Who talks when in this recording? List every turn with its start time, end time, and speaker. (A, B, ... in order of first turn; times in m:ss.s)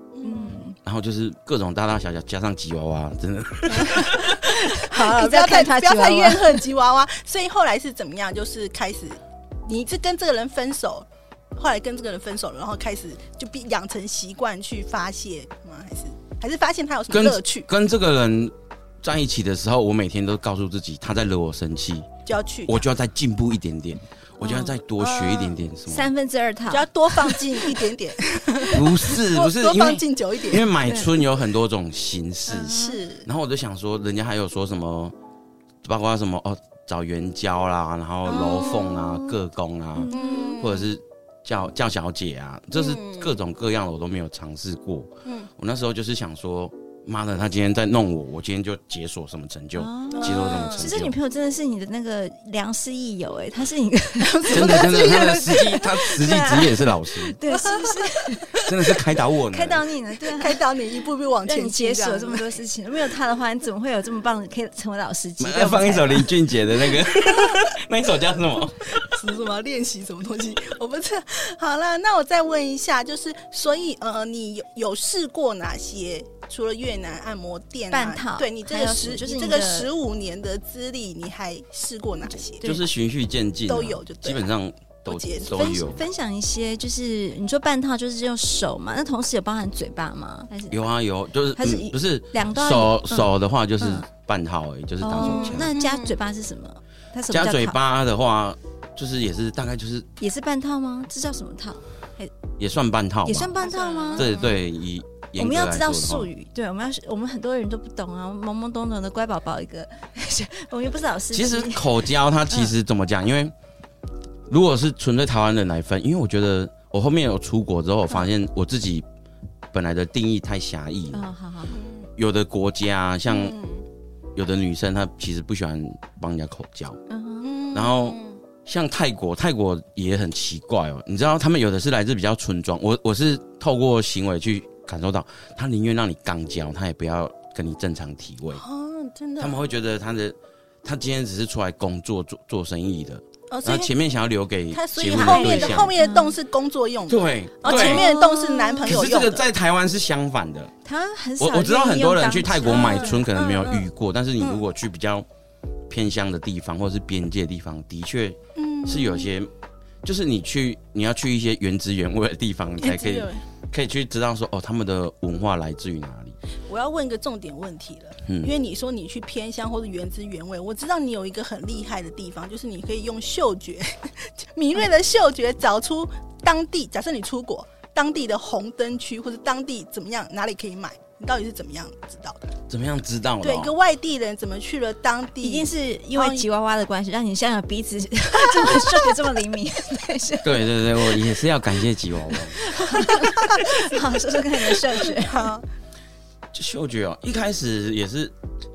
0:00.1-0:00.6 A
0:00.2-0:00.8 B
0:00.8-0:04.4 C
0:03.7-0:17.7 A
0:04.4-0:06.6 B
0:17.1-0:22.1 C
0:22.2-0:22.8 A
0:22.6-0:26.1 C
0:24.4-0:24.8 B
0:25.0-0:25.6 A
0:25.9-0:27.8 B
0:26.7-0:30.7 A
0:28.7-0:35.1 C
0:30.8-0:31.1 B
0:32.5-0:33.0 B
0:32.6-0:33.2 A
0:35.8-0:51.2 C
0:38.3-0:38.8 A
0:38.3-0:39.3 B
0:40.0-0:40.8 B
0:40.1-0:40.7 A
0:42.7-0:43.4 A
0:49.8-0:58.7 B
0:50.1-0:50.9 A
0:54.2-0:55.7 A
0:54.5-0:57.3 C
0:57.5-0:58.6 A
0:58.6-0:59.8 C
0:59.5-1:00.6 B
1:00.3-1:02.6 A
1:01.4-1:06.3 B
1:05.4-1:09.0 C
1:09.0-1:22.8 A
1:17.9-1:19.9 B
1:22.6-1:26.0 C
1:23.7-1:24.4 A
1:25.0-1:25.9 A
1:25.5-1:30.8 B
1:30.7-1:35.7 C
1:31.6-1:34.0 B
1:35.0-1:37.8 B
1:35.2-1:36.2 A
1:37.3-1:40.1 C
1:40.2-1:42.3 B
1:42.6-1:43.5 C
1:43.2-1:44.3 B
1:43.6-1:44.5 A
1:44.1-1:46.3 C
1:45.4-1:52.7 B
1:51.3-1:53.5 C
1:54.5-1:59.0 C
1:59.7-2:01.2 C
2:01.1-2:01.8 B
2:01.7-2:02.1 A
2:02.2-2:03.6 C
2:03.3-2:03.8 A
2:04.4-2:07.0 C
2:07.1-2:07.6 B
2:07.4-2:08.4 A
2:07.7-2:18.6 C
2:18.5-2:19.6 A
2:19.4-2:25.9 C
2:23.5-2:23.9 A
2:24.7-2:29.4 A
2:25.1-2:26.3 B
2:27.1-2:28.0 C
2:27.6-2:29.0 B
2:28.9-2:30.7 C
2:30.8-2:33.2 B
2:31.4-2:35.2 C
2:32.6-2:33.9 A
2:35.9-2:39.5 C
2:38.5-2:39.3 A
2:40.0-2:46.4 C
2:42.8-2:43.4 A
2:46.7-3:02.5 A
2:48.2-2:48.5 C
3:02.7-3:03.7 C
3:03.4-3:06.4 A
3:05.4-3:10.8 B
3:08.3-3:09.1 A
3:10.4-3:12.6 C
3:12.5-3:15.5 B
3:12.9-3:13.8 A
3:14.7-3:15.6 A
3:16.5-3:18.3 C